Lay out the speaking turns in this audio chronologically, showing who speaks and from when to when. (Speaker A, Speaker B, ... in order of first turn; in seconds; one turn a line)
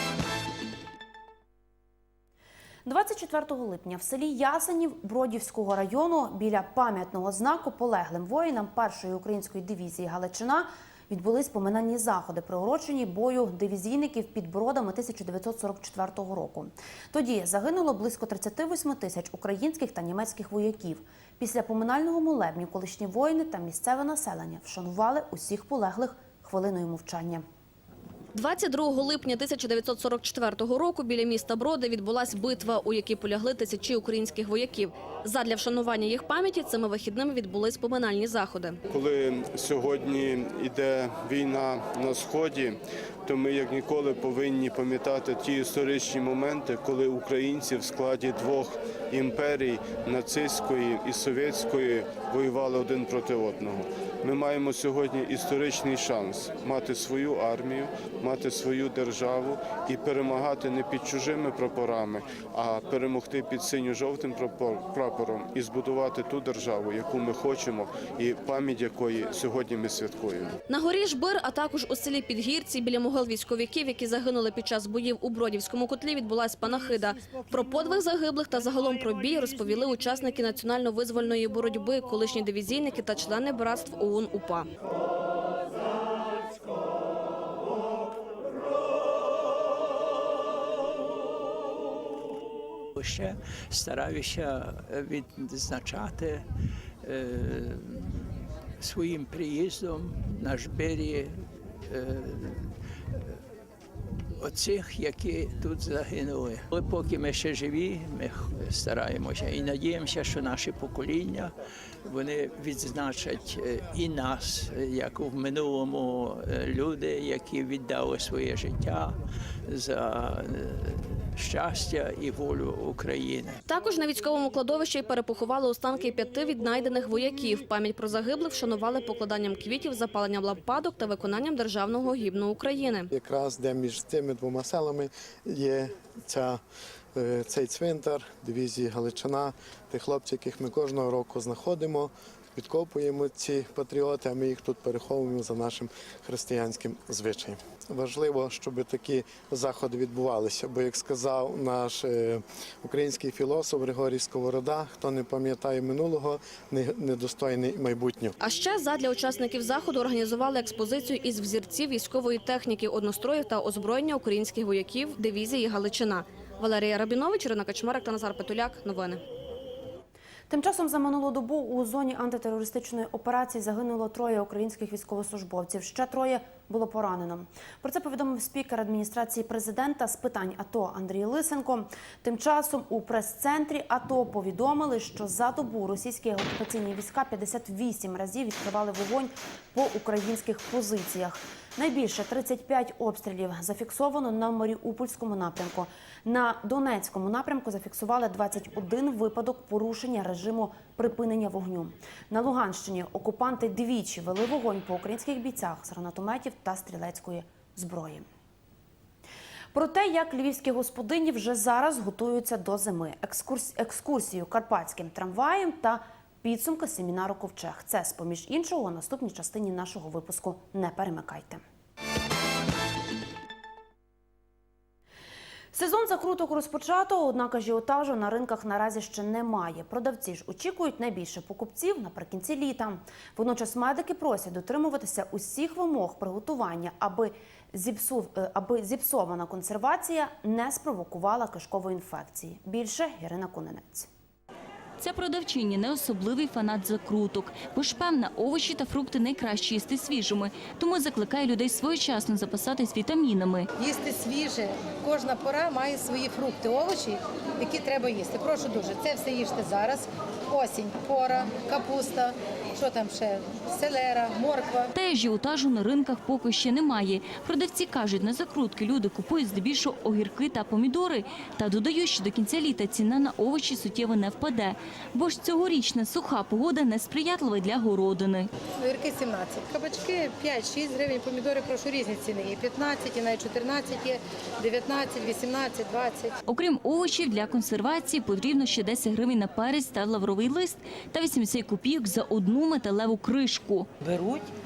Speaker A: 2.9-27.4
Speaker B: 28.3-38.8
Speaker C: 38.9-70.6
Speaker B: 70.7-84.7
Speaker D: 93.0-96.5
Speaker D: 97.0-103.4
Speaker D: 104.4-111.5
Speaker D: 112.1-123.6
Speaker B: 123.7-133.1
Speaker E: 133.1-136.6
Speaker E: 137.2-158.3
Speaker B: 158.4-169.2
Speaker A: 170.5-208.3
Speaker A: 209.7-221.6
Speaker A: 225.7-244.1
Speaker F: 245.0-253.7
Speaker G: 253.8-264.9
Speaker F: 264.9-278.5
Speaker G: 278.8-286.3
Speaker F: 286.5-293.9